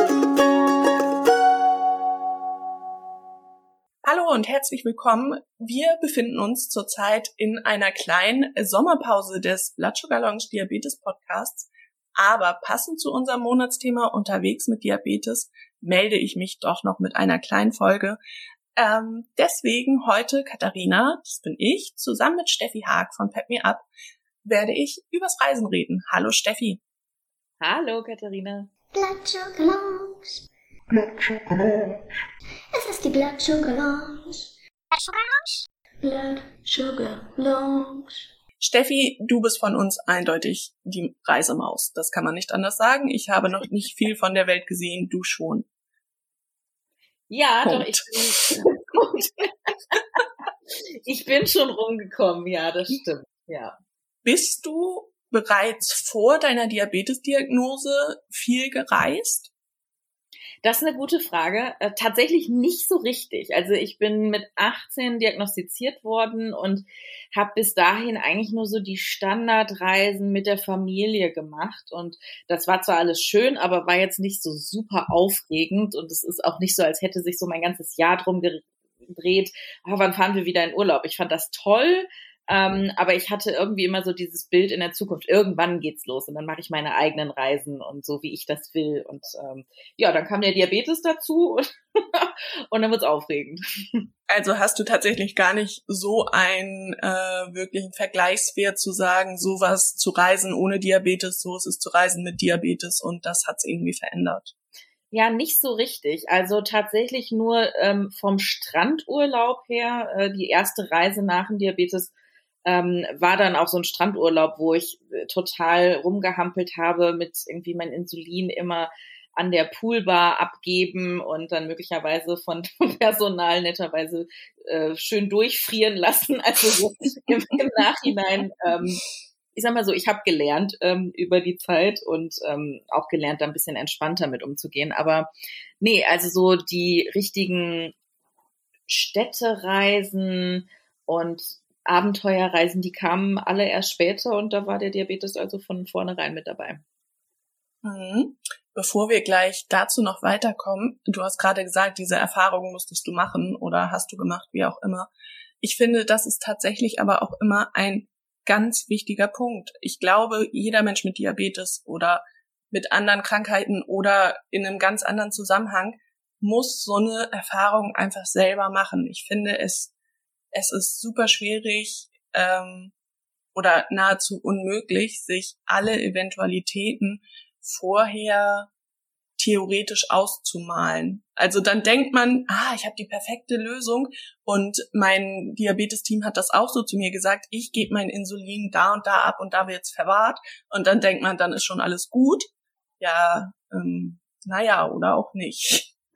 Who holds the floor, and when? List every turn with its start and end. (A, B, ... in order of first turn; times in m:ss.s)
0:04.0-0:18.2 A
0:18.8-0:23.9 A
0:24.4-0:26.8 A
0:27.6-0:28.7 B
0:28.9-0:32.0 C
0:32.7-0:34.4 C
0:35.0-0:38.1 C
0:38.6-0:45.7 A
0:47.3-0:50.2 B
0:47.6-0:48.7 A
0:51.0-0:53.8 B
0:54.2-0:59.5 A
1:00.6-1:34.1 B
1:34.3-1:44.5 A
1:45.1-1:52.1 B
1:52.7-2:09.0 B
2:09.5-2:15.3 B
2:15.8-2:17.9 B
2:18.9-2:26.8 B
2:27.8-2:35.1 A
2:35.6-2:49.9 A
2:50.5-2:52.9 A
2:53.5-2:58.7 A
2:59.4-3:12.5 A
3:13.0-3:15.9 A